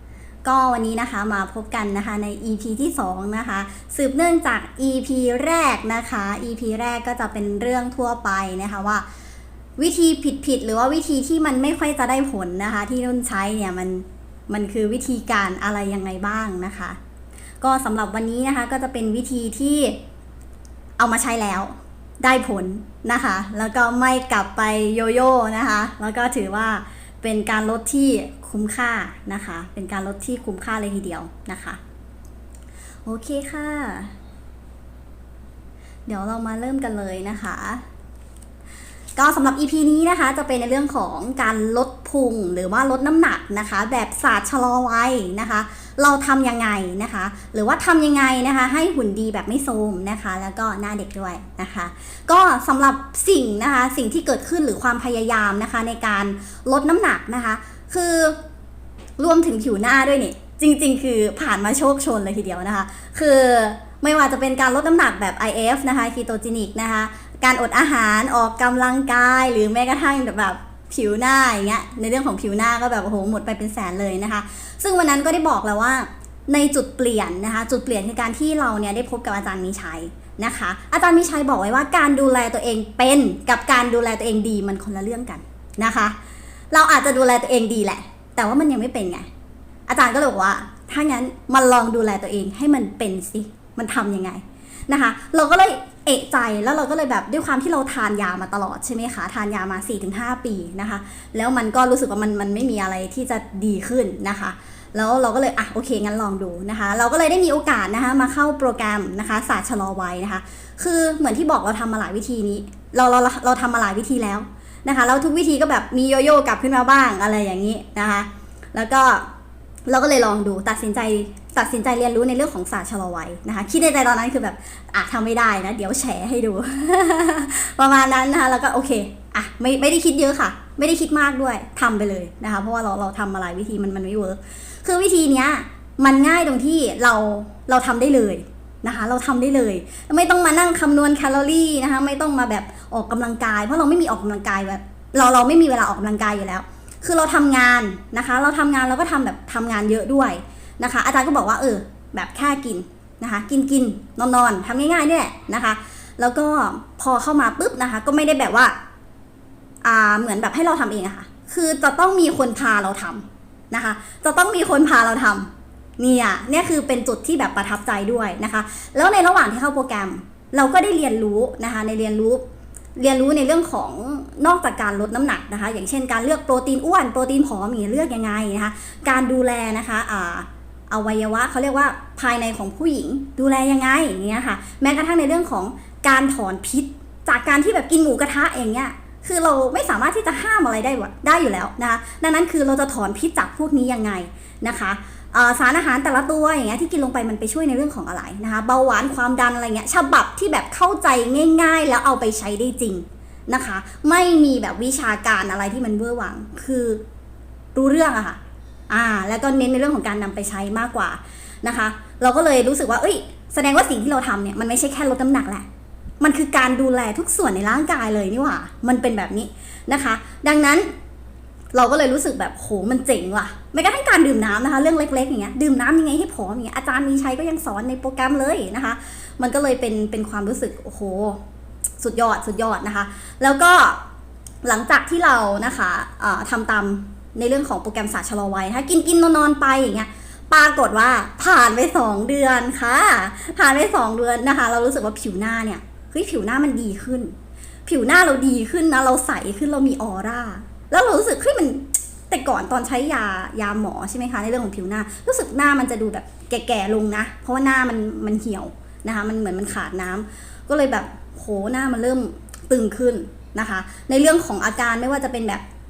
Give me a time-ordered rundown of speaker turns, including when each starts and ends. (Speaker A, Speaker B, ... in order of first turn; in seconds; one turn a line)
Speaker A: 0.5-9.1
Speaker A: 9.8-17.0
Speaker A: 17.6-20.0
Speaker A: 21.0-31.8
Speaker A: 33.0-34.1
Speaker A: 36.1-37.8
Speaker A: 39.2-58.4
Speaker A: 59.2-86.2
Speaker A: 86.7-89.3
Speaker A: 89.9-119.3
Speaker A: 119.9-158.8
Speaker A: 159.8-172.4
Speaker A: 173.0-207.0
Speaker A: 207.8-208.4
Speaker A: 208.9-215.7
Speaker A: 216.2-220.9
Speaker A: 221.7-231.4
Speaker A: 232.0-234.0
Speaker A: 234.6-247.3
Speaker A: 247.9-265.6